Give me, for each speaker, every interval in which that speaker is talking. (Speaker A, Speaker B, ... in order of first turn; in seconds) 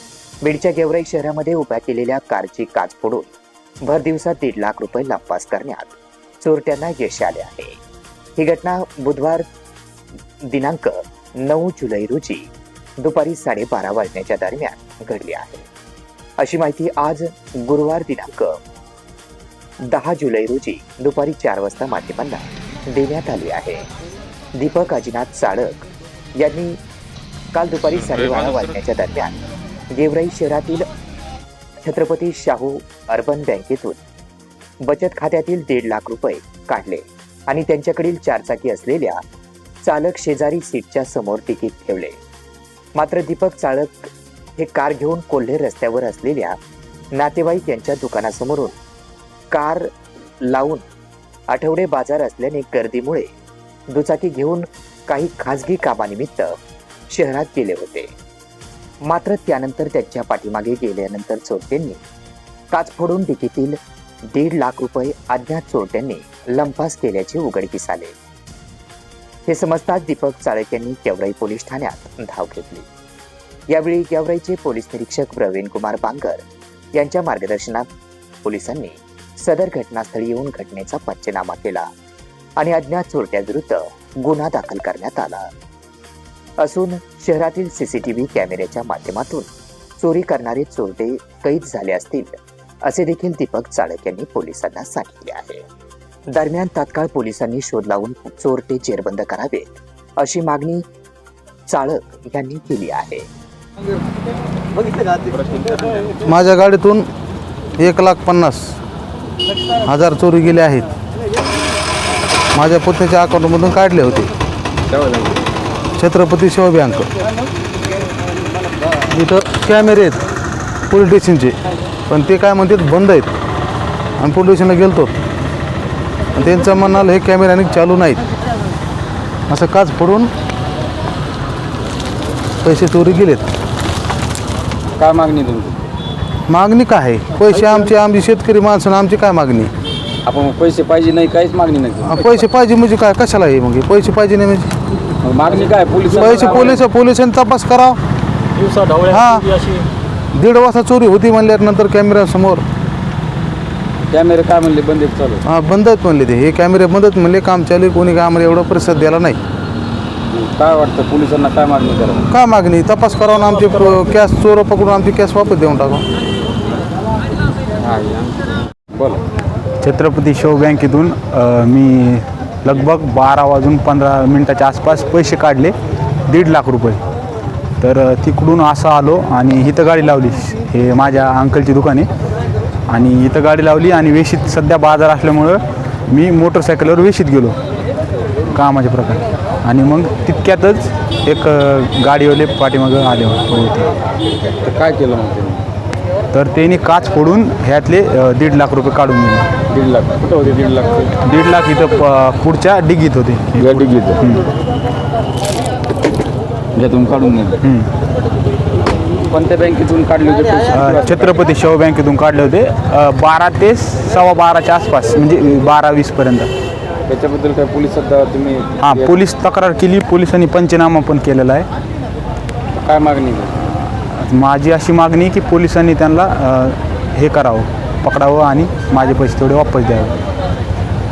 Speaker A: 0.4-3.3, 3.8-7.8, 8.4-9.4, 10.5-12.5, 13.0-15.7, 16.4-18.6, 19.9-23.9, 24.6-25.9, 26.4-26.8, 27.5-29.4, 29.9-30.9, 31.8-34.0, 34.8-39.2, 39.8-42.2, 43.0-46.6, 47.1-48.8, 49.5-49.9, 50.5-50.8, 51.5-53.3, 53.9-56.5, 57.1-58.1, 59.0-62.0, 62.7-63.8, 64.3-68.1, 69.5-72.8, 73.7-77.9, 78.4-81.9, 82.6-85.5, 86.6-89.5, 90.0-95.6, 96.3-100.8, 101.7-103.2
Speaker B: 105.3-106.0, 114.9-115.4, 135.0-135.9, 140.2-142.4, 145.2-146.8, 154.1-155.4, 160.3-162.3, 167.8-169.2, 194.4-195.7, 199.7-201.1, 203.6-204.2, 206.8-207.6, 209.3-211.4, 217.1-219.2, 222.8-223.7
Speaker C: 106.2-107.1, 107.8-108.8, 109.8-110.9, 112.5-114.3, 116.0-117.1, 119.1-120.2, 120.9-121.5, 122.1-123.3, 124.2-125.1, 126.3-128.2, 129.5-130.3, 132.6-133.5, 136.5-139.7, 142.0-144.7, 146.1-148.0, 148.9-149.8, 150.3-152.6, 155.4-159.4, 162.3-166.1
Speaker D: 169.8-175.7, 176.3-177.0, 177.8-182.1, 182.9-187.6, 188.5-193.9, 196.3-199.4, 201.2-204.5, 207.6-207.9, 210.7-216.5, 218.8-221.7, 224.2-230.2